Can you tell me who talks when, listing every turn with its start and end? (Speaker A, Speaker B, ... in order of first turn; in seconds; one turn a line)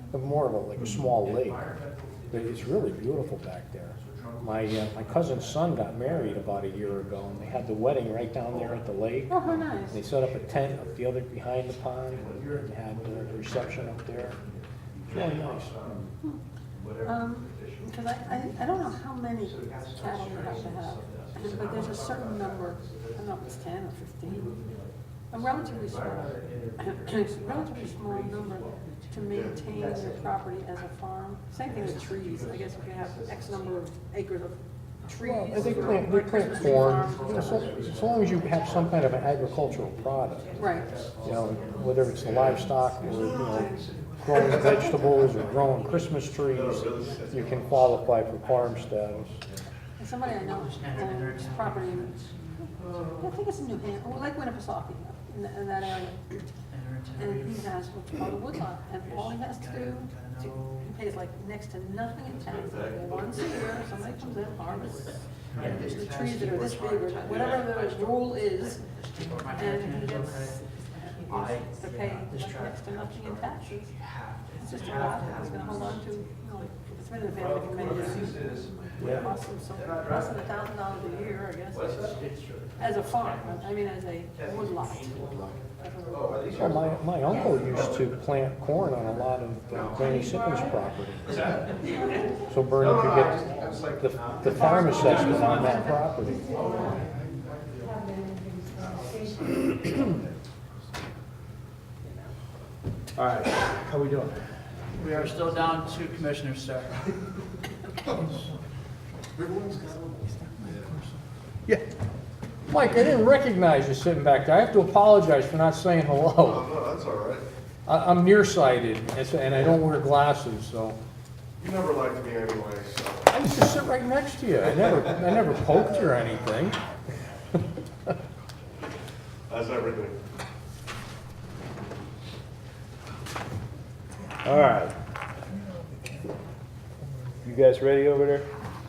Speaker A: 0.1-1.7
Speaker B: 1.1-3.4
Speaker A: 2.3-14.4
Speaker B: 3.9-11.0
Speaker C: 9.3-10.0
Speaker B: 12.1-16.1
Speaker A: 15.1-15.8
Speaker B: 16.8-18.9
Speaker C: 17.0-24.6
Speaker B: 19.4-28.9
Speaker C: 25.3-37.9
Speaker D: 28.3-29.7
Speaker E: 29.3-29.6
Speaker B: 29.7-30.6
Speaker B: 31.6-33.8
Speaker A: 35.2-40.7
Speaker B: 35.5-45.5
Speaker C: 40.6-41.0
Speaker D: 40.7-41.2
Speaker A: 41.2-49.4
Speaker E: 42.1-42.7
Speaker C: 44.7-45.1
Speaker E: 46.5-47.6
Speaker B: 47.0-49.6
Speaker C: 50.0-56.4
Speaker D: 50.2-53.0
Speaker B: 52.8-53.2
Speaker D: 56.7-57.8
Speaker C: 57.2-68.9
Speaker D: 59.0-60.9
Speaker E: 62.6-63.7
Speaker B: 64.7-66.4
Speaker D: 65.5-76.2
Speaker C: 69.5-74.0
Speaker C: 74.6-82.2
Speaker B: 77.3-82.8
Speaker D: 77.8-78.2
Speaker D: 82.0-83.8
Speaker C: 82.8-86.7
Speaker B: 84.4-84.7
Speaker D: 84.4-85.6
Speaker B: 86.1-88.2
Speaker A: 86.5-91.6
Speaker B: 89.7-90.3
Speaker B: 91.2-91.8
Speaker A: 92.5-96.6
Speaker B: 92.8-97.7
Speaker C: 94.6-96.0
Speaker E: 99.3-99.7
Speaker B: 103.2-104.4
Speaker B: 105.0-105.5
Speaker E: 105.0-106.2
Speaker D: 105.0-107.0
Speaker E: 109.4-110.9
Speaker A: 112.7-116.8
Speaker E: 116.4-117.5
Speaker A: 117.9-121.0
Speaker E: 121.6-123.3
Speaker A: 123.3-126.8
Speaker E: 129.5-130.2
Speaker B: 134.5-134.9
Speaker B: 137.4-138.4